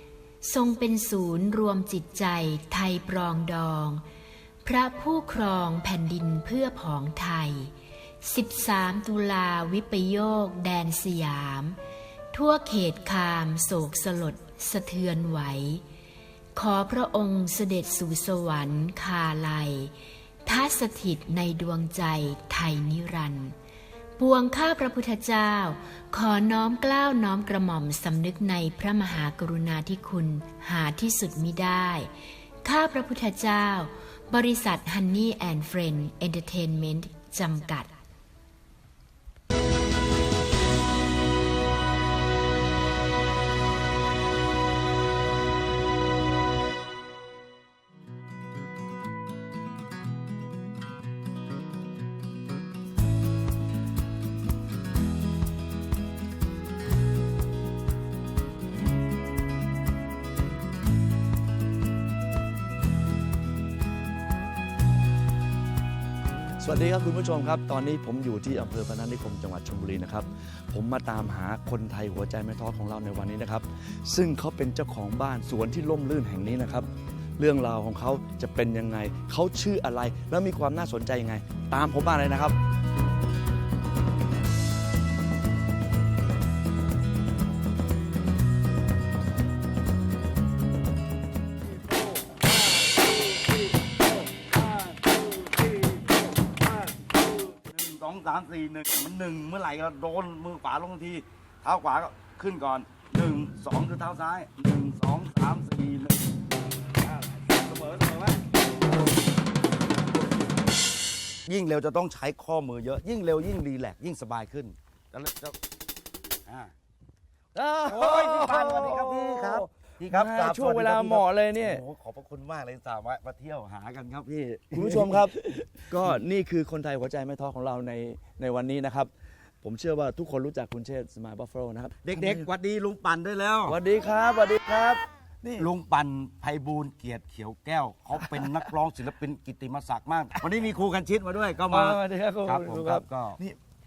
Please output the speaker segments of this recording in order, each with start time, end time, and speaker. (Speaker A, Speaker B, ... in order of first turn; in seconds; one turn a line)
Speaker A: 0.4-4.0
Speaker A: 4.6-11.8
Speaker A: 12.3-15.8
Speaker A: 16.5-19.9
Speaker A: 20.4-23.5
Speaker A: 24.2-32.1
Speaker A: 32.6-37.9
Speaker B: 66.6-82.6
Speaker C: 91.9-106.2
Speaker C: 107.0-108.4
Speaker C: 111.5-115.6
Speaker C: 116.5-116.7
Speaker B: 117.5-121.8
Speaker C: 117.8-125.3
Speaker B: 124.7-129.1
Speaker B: 129.6-132.5
Speaker C: 132.0-133.8
Speaker B: 133.7-135.7
Speaker C: 135.6-143.4
Speaker B: 138.2-138.7
Speaker B: 141.6-143.6